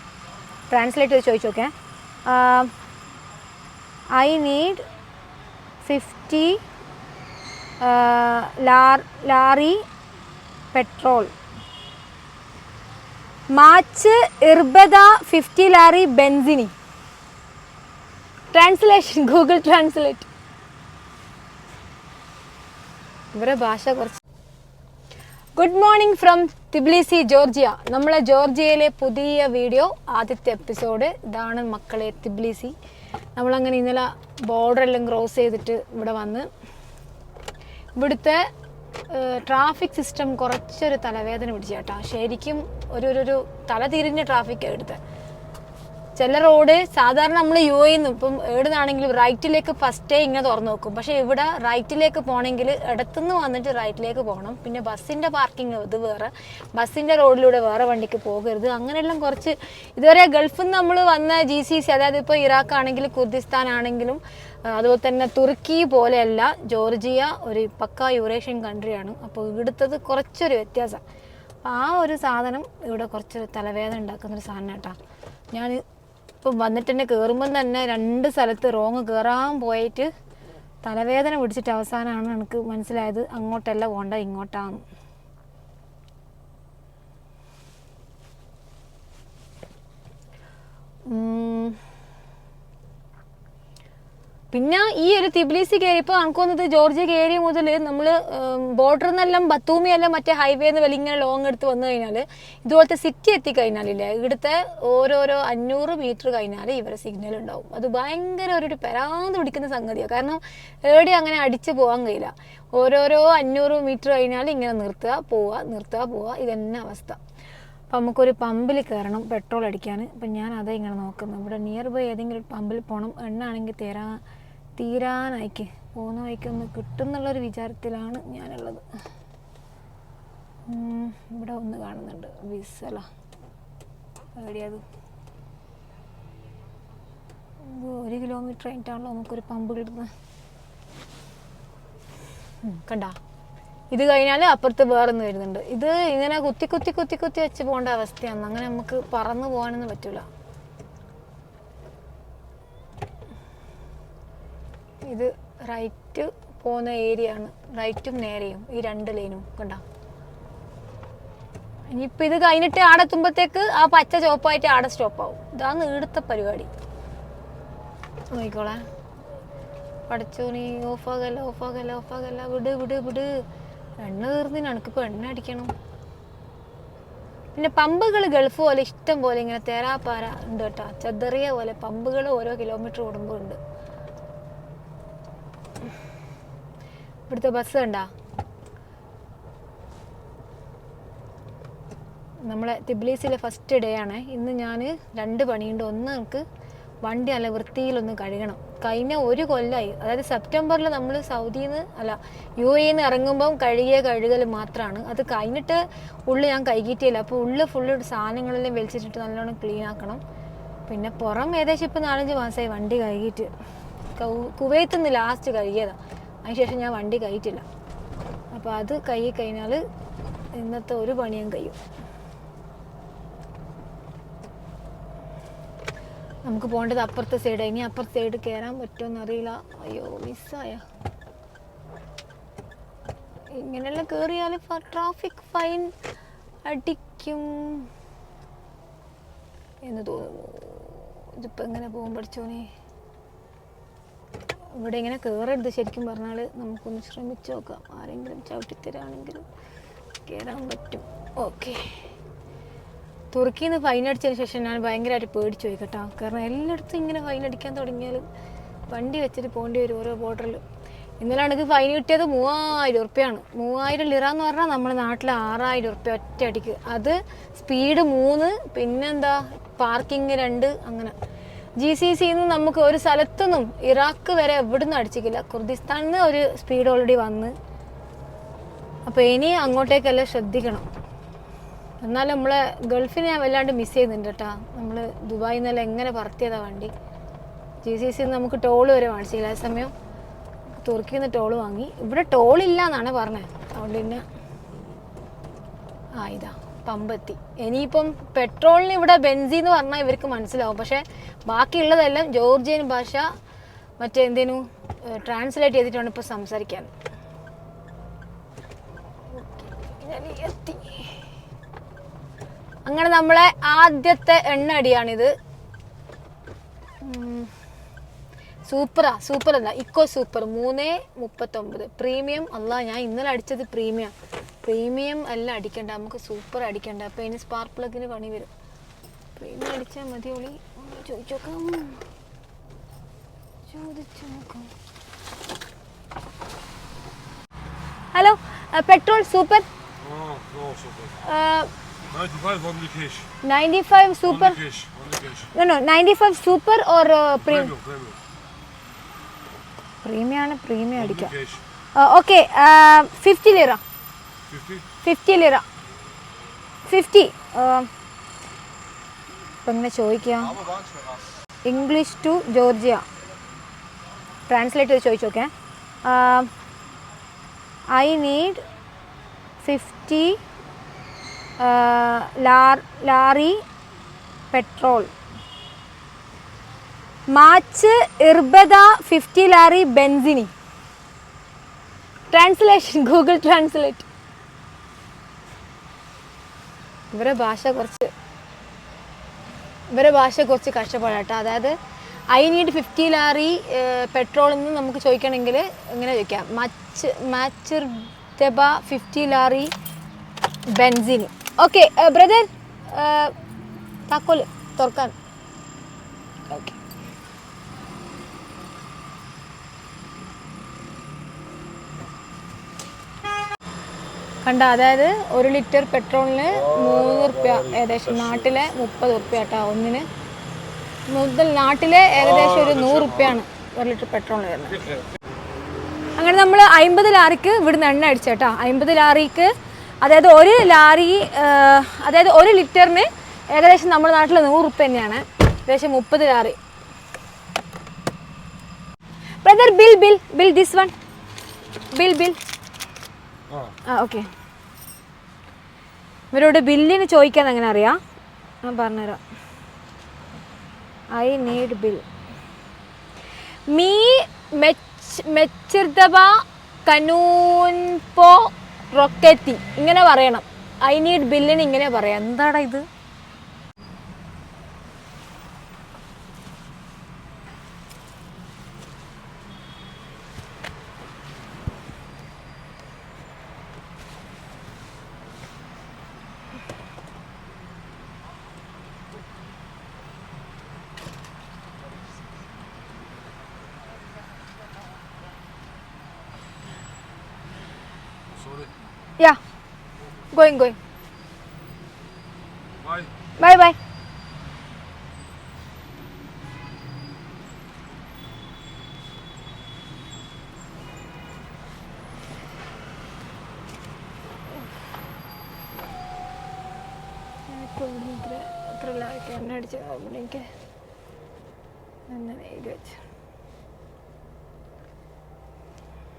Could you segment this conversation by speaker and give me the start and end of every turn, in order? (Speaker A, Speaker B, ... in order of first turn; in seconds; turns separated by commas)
Speaker A: 0.7-1.7, Speaker A: 2.2-2.7, Speaker A: 4.1-4.8, Speaker A: 5.8-6.6, Speaker A: 7.8-9.8, Speaker A: 10.7-11.3, Speaker A: 13.5-16.7, Speaker A: 18.5-20.3, Speaker A: 23.3-24.2, Speaker A: 25.6-32.7, Speaker A: 33.4-36.5, Speaker A: 38.0-38.4, Speaker A: 39.1-45.0, Speaker A: 46.2-71.0, Speaker A: 71.6-75.0, Speaker A: 75.5-75.8, Speaker A: 76.4-80.1, Speaker A: 80.8-84.8, Speaker A: 91.1-91.8, Speaker A: 94.5-117.2, Speaker A: 117.9-124.2, Speaker A: 124.8-128.8, Speaker A: 130.7-133.1, Speaker A: 134.4-134.8, Speaker A: 137.6-140.1, Speaker A: 142.6-143.2, Speaker A: 143.9-150.2, Speaker A: 155.1-159.8, Speaker A: 161.9-166.7, Speaker A: 168.3-168.8, Speaker A: 170.1-173.3, Speaker A: 174.0-175.7, Speaker A: 177.5-183.6, Speaker A: 187.3-188.1, Speaker A: 192.4-196.4, Speaker A: 197.0-210.2, Speaker A: 210.9-213.5, Speaker A: 214.2-217.6, Speaker A: 218.5-219.8, Speaker A: 220.6-221.8, Speaker A: 226.4-230.8, Speaker A: 233.5-235.9, Speaker A: 236.7-237.9, Speaker A: 239.8-242.7, Speaker A: 244.8-249.4, Speaker A: 250.2-251.8, Speaker A: 253.3-258.2, Speaker A: 258.9-260.6, Speaker A: 261.2-271.1, Speaker A: 271.8-277.5, Speaker A: 279.1-280.8, Speaker A: 282.0-286.9, Speaker A: 287.8-289.9, Speaker A: 290.8-294.2, Speaker A: 296.2-303.3, Speaker A: 304.0-306.9, Speaker A: 309.3-311.2, Speaker A: 312.9-315.3, Speaker A: 317.0-317.5, Speaker A: 318.7-328.5, Speaker A: 329.4-332.0, Speaker A: 333.7-334.7, Speaker A: 338.1-339.6, Speaker B: 340.0-341.2, Speaker A: 341.2-341.7, Speaker B: 342.1-343.3, Speaker A: 343.4-344.6, Speaker B: 344.2-345.5, Speaker A: 345.5-347.7, Speaker B: 347.4-348.2, Speaker A: 350.0-351.3, Speaker B: 350.9-351.6, Speaker A: 351.9-353.8, Speaker B: 354.5-354.9, Speaker A: 355.0-355.6, Speaker A: 356.9-357.9, Speaker A: 359.6-360.6, Speaker A: 361.6-363.0, Speaker A: 364.5-365.5, Speaker A: 366.0-366.5, Speaker A: 367.9-368.6, Speaker A: 369.6-370.4, Speaker A: 371.6-373.6, Speaker A: 374.5-375.1, Speaker A: 377.3-380.5, Speaker A: 382.3-384.1, Speaker A: 387.1-388.1, Speaker A: 389.9-391.7, Speaker A: 392.3-399.7, Speaker A: 400.7-403.3, Speaker A: 404.1-405.1, Speaker A: 406.5-406.8, Speaker A: 414.4-420.1, Speaker A: 421.1-424.9, Speaker B: 422.4-423.3, Speaker A: 426.2-436.6, Speaker A: 439.4-440.9, Speaker A: 441.9-442.4, Speaker B: 443.5-443.8, Speaker A: 443.9-444.3, Speaker A: 446.3-448.0, Speaker A: 448.6-449.2, Speaker A: 451.1-452.0, Speaker A: 453.7-462.8, Speaker B: 488.3-488.7, Speaker A: 490.3-490.8, Speaker B: 492.8-493.1, Speaker A: 493.4-493.8, Speaker A: 507.5-510.4, Speaker A: 512.1-513.0